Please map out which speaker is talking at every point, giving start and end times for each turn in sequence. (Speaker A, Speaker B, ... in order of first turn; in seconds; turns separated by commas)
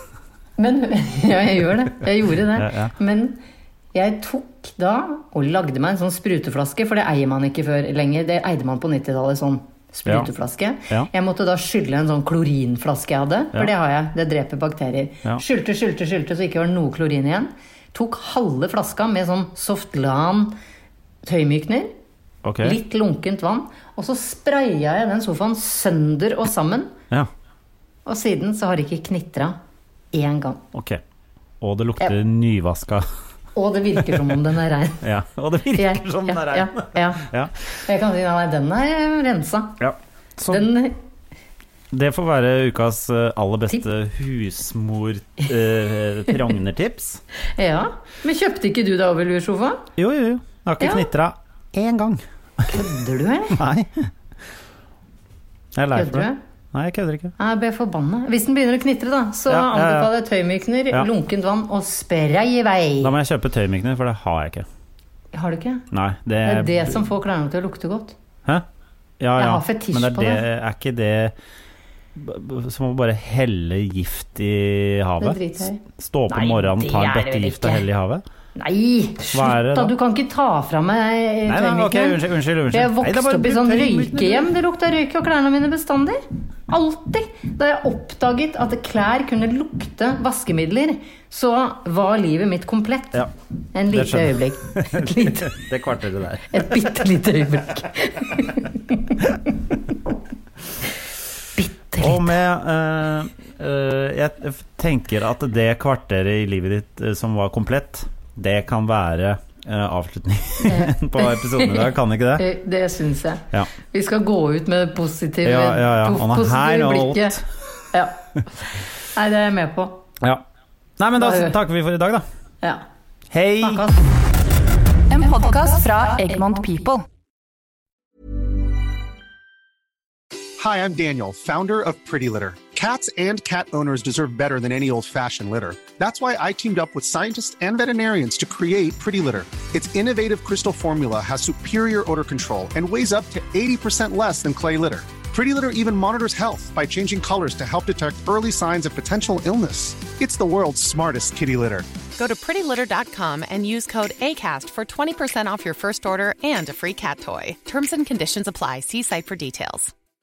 Speaker A: 0.6-3.4, Speaker B: 2.5-2.9, Speaker A: 3.9-20.6, Speaker A: 21.2-21.9, Speaker B: 22.4-22.8, Speaker A: 22.6-26.9, Speaker A: 28.1-29.6, Speaker A: 30.1-30.6, Speaker B: 30.7-31.0, Speaker B: 31.6-33.0, Speaker A: 33.5-35.0, Speaker B: 35.0-37.5, Speaker A: 35.7-39.8, Speaker B: 39.8-40.7, Speaker A: 40.5-41.0, Speaker B: 41.9-47.2, Speaker A: 47.5-49.9, Speaker B: 50.0-52.8, Speaker A: 50.8-51.0, Speaker A: 52.7-53.6, Speaker B: 53.5-54.1, Speaker B: 55.7-57.3, Speaker A: 55.9-56.4, Speaker A: 57.4-63.1, Speaker B: 59.5-60.1, Speaker B: 63.0-64.7, Speaker A: 65.3-65.8, Speaker B: 65.9-67.1, Speaker A: 66.4-68.2, Speaker B: 69.2-71.3, Speaker A: 69.4-70.4, Speaker B: 72.1-78.2, Speaker A: 75.2-77.8, Speaker A: 78.5-95.6, Speaker B: 79.3-79.9, Speaker B: 81.5-84.5, Speaker B: 93.9-96.9, Speaker A: 96.5-98.7, Speaker A: 101.5-102.3, Speaker B: 102.0-112.5, Speaker A: 110.6-120.0, Speaker B: 115.4-117.4, Speaker B: 121.0-122.2, Speaker A: 121.2-121.5, Speaker B: 123.3-123.9, Speaker A: 123.6-124.0, Speaker C: 125.1-127.0, Speaker D: 130.6-151.9, Speaker E: 152.2-159.9